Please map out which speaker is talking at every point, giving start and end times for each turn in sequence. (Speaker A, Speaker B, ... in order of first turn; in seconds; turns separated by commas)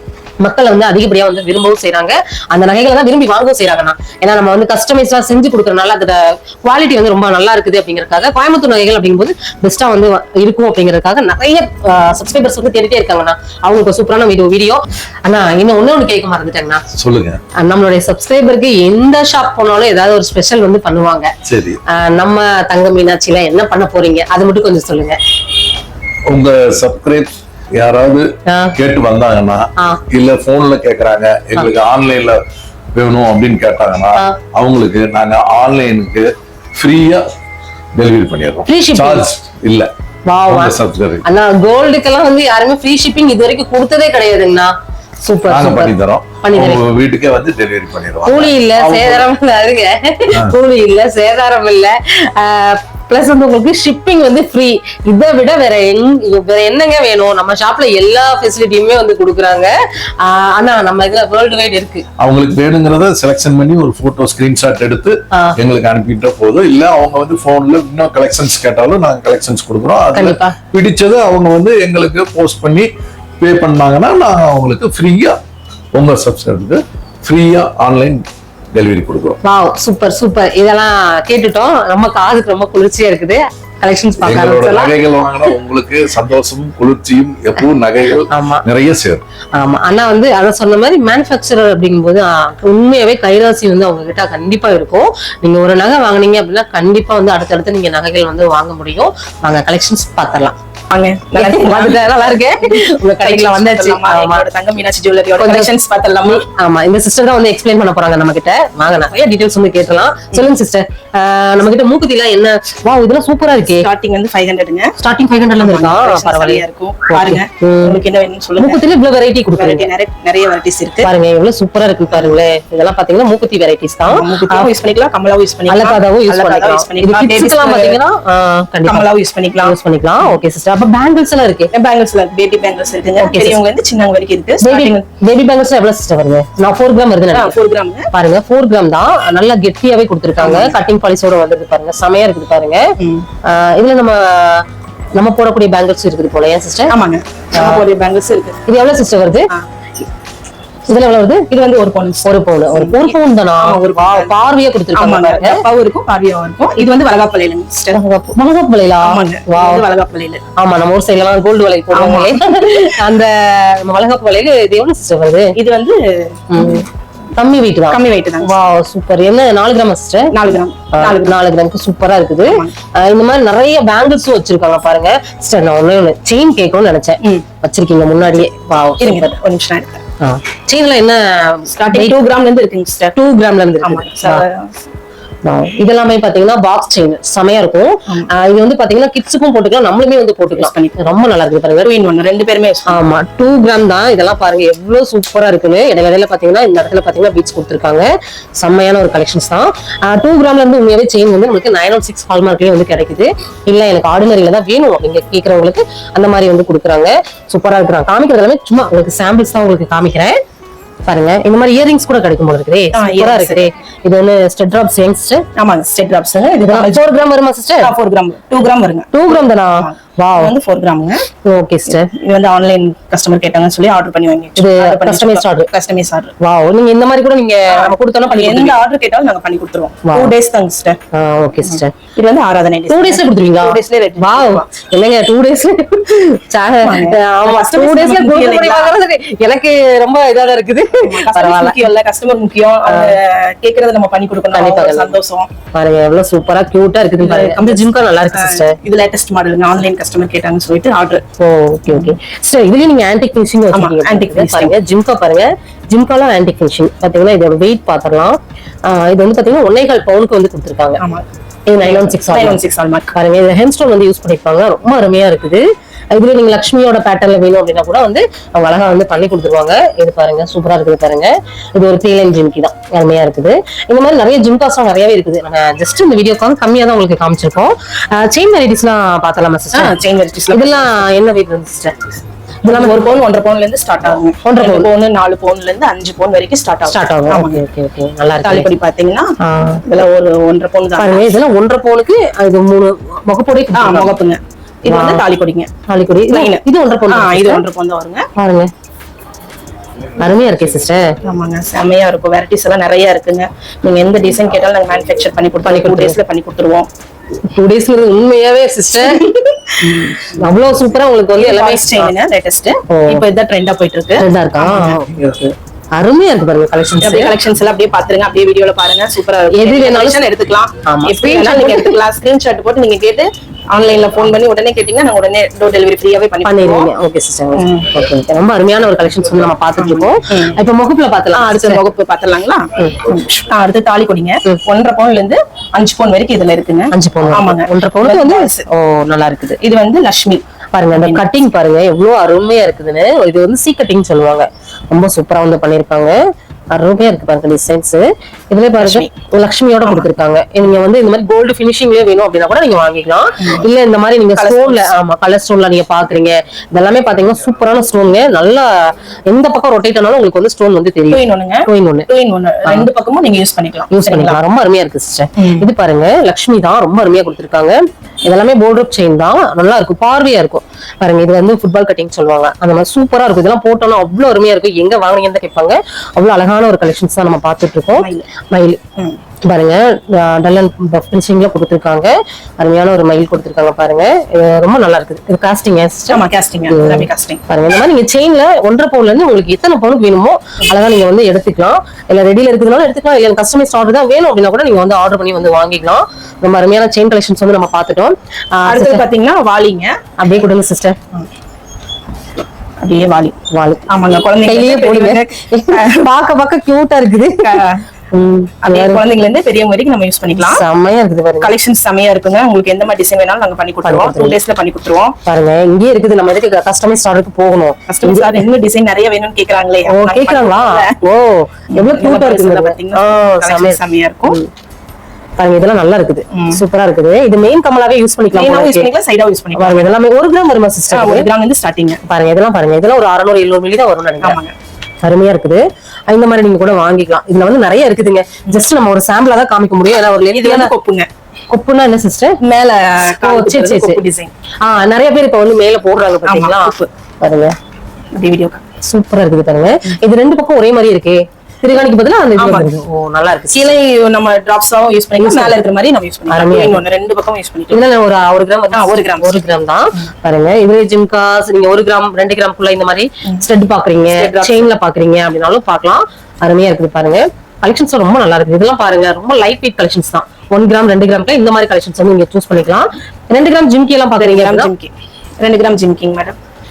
Speaker A: 0.4-16.8, Speaker B: 16.9-17.4, Speaker A: 17.6-21.3, Speaker B: 21.4-21.8, Speaker A: 21.9-25.2, Speaker B: 26.3-32.4, Speaker A: 28.5-28.7, Speaker B: 32.9-37.3, Speaker B: 37.9-39.9, Speaker A: 38.7-39.2, Speaker A: 40.3-44.7, Speaker B: 40.5-41.2, Speaker A: 45.2-46.8, Speaker B: 45.5-49.3, Speaker A: 48.2-62.0, Speaker B: 62.2-75.4, Speaker A: 70.1-70.5, Speaker B: 75.9-79.4, Speaker A: 79.4-84.9, Speaker B: 84.2-89.2, Speaker A: 88.3-88.6, Speaker A: 89.5-100.5, Speaker C: 100.9-106.4, Speaker A: 101.4-104.4, Speaker A: 105.4-105.7, Speaker A: 106.2-113.9, Speaker C: 113.8-114.9, Speaker A: 115.0-118.0, Speaker C: 115.6-118.8, Speaker A: 118.6-119.9, Speaker C: 119.5-121.1, Speaker A: 121.0-124.7, Speaker C: 124.1-128.0, Speaker A: 125.7-129.1, Speaker C: 128.9-130.3, Speaker A: 129.6-131.7, Speaker C: 131.7-135.1, Speaker A: 133.2-133.6, Speaker A: 134.6-137.5, Speaker C: 137.3-138.1, Speaker A: 138.1-142.8, Speaker C: 140.4-140.7, Speaker C: 143.0-143.3, Speaker A: 143.4-146.9, Speaker C: 146.9-148.6, Speaker A: 147.6-147.8, Speaker A: 148.7-149.5, Speaker A: 150.9-151.5, Speaker C: 151.5-154.4, Speaker A: 152.2-155.6, Speaker C: 154.9-158.0, Speaker A: 157.9-159.8, Speaker C: 159.0-160.4, Speaker A: 160.6-165.6, Speaker C: 161.9-163.0, Speaker C: 165.6-166.8, Speaker A: 166.5-166.8, Speaker A: 167.3-170.3, Speaker C: 167.9-168.6, Speaker C: 170.3-171.3, Speaker A: 170.9-179.3, Speaker C: 179.0-180.0, Speaker A: 180.2-182.2, Speaker C: 181.7-183.2, Speaker A: 183.1-184.4, Speaker C: 183.8-184.8, Speaker A: 185.4-191.9, Speaker C: 190.6-191.0, Speaker C: 191.8-192.9, Speaker A: 192.9-210.4, Speaker A: 211.1-215.4, Speaker C: 212.9-213.7, Speaker C: 215.6-217.0, Speaker A: 216.6-217.9, Speaker C: 217.8-221.2, Speaker A: 219.1-220.5, Speaker A: 221.4-222.1, Speaker C: 221.9-226.3, Speaker A: 224.6-225.7, Speaker A: 226.4-228.8, Speaker C: 227.7-231.0, Speaker A: 230.0-230.3, Speaker A: 231.1-231.9, Speaker C: 231.7-234.7, Speaker A: 232.9-241.8, Speaker C: 236.8-238.9, Speaker C: 241.0-245.5, Speaker A: 242.9-243.2, Speaker A: 244.5-245.1, Speaker A: 245.7-248.8, Speaker C: 247.2-251.2, Speaker A: 251.4-261.0, Speaker C: 253.7-254.7, Speaker C: 261.0-261.2, Speaker A: 261.7-262.6, Speaker C: 261.8-263.1, Speaker A: 263.1-279.9, Speaker C: 279.7-281.0, Speaker A: 280.5-282.0, Speaker C: 282.6-287.6, Speaker A: 282.6-283.1, Speaker A: 284.4-284.9, Speaker A: 286.9-288.7, Speaker C: 288.4-289.3, Speaker A: 289.4-289.8, Speaker C: 289.9-291.4, Speaker A: 291.0-294.1, Speaker C: 293.8-295.7, Speaker A: 294.9-295.2, Speaker A: 295.9-297.6, Speaker C: 296.3-298.3, Speaker A: 298.4-298.7, Speaker A: 300.2-301.1, Speaker C: 301.2-306.9, Speaker A: 305.6-306.2, Speaker A: 307.4-309.2, Speaker C: 308.9-310.4, Speaker A: 309.8-312.1, Speaker C: 311.4-315.0, Speaker A: 312.9-313.2, Speaker A: 314.2-317.4, Speaker C: 317.0-326.9, Speaker A: 319.5-320.2, Speaker A: 320.8-321.9, Speaker A: 326.4-331.8, Speaker C: 327.5-327.9, Speaker C: 329.8-330.6, Speaker C: 331.3-338.6, Speaker A: 336.9-339.6, Speaker C: 339.6-340.4, Speaker A: 340.7-346.2, Speaker C: 340.9-341.2, Speaker A: 346.7-362.1, Speaker C: 348.8-349.1, Speaker C: 354.4-354.9, Speaker C: 361.1-364.4, Speaker A: 363.9-378.8, Speaker C: 365.4-365.6, Speaker C: 377.9-378.2, Speaker A: 379.4-399.0, Speaker C: 386.1-387.4, Speaker C: 398.7-400.0, Speaker A: 400.2-401.0, Speaker C: 402.8-403.4, Speaker A: 403.5-403.9, Speaker C: 403.9-406.0, Speaker A: 404.4-409.0, Speaker C: 407.4-407.8, Speaker C: 408.7-410.6, Speaker A: 410.4-411.5, Speaker C: 411.4-415.1, Speaker A: 413.8-414.4, Speaker A: 415.2-418.4, Speaker C: 417.9-420.9, Speaker A: 419.9-424.5, Speaker C: 421.7-424.4, Speaker A: 425.4-428.9, Speaker C: 426.3-426.6, Speaker C: 428.3-429.9, Speaker A: 429.5-431.2, Speaker C: 430.9-432.0, Speaker A: 432.1-434.4, Speaker C: 434.2-434.5, Speaker A: 435.0-440.7, Speaker C: 440.3-441.1, Speaker A: 441.5-442.4, Speaker C: 442.4-444.3, Speaker A: 443.2-444.0, Speaker A: 444.6-447.5, Speaker C: 446.3-446.9, Speaker C: 448.1-448.6, Speaker A: 448.8-453.7, Speaker C: 452.4-452.7, Speaker C: 453.5-457.8, Speaker A: 455.2-455.5, Speaker A: 456.3-456.8, Speaker A: 457.7-474.7, Speaker C: 458.7-459.4, Speaker C: 464.1-464.7, Speaker C: 474.2-476.4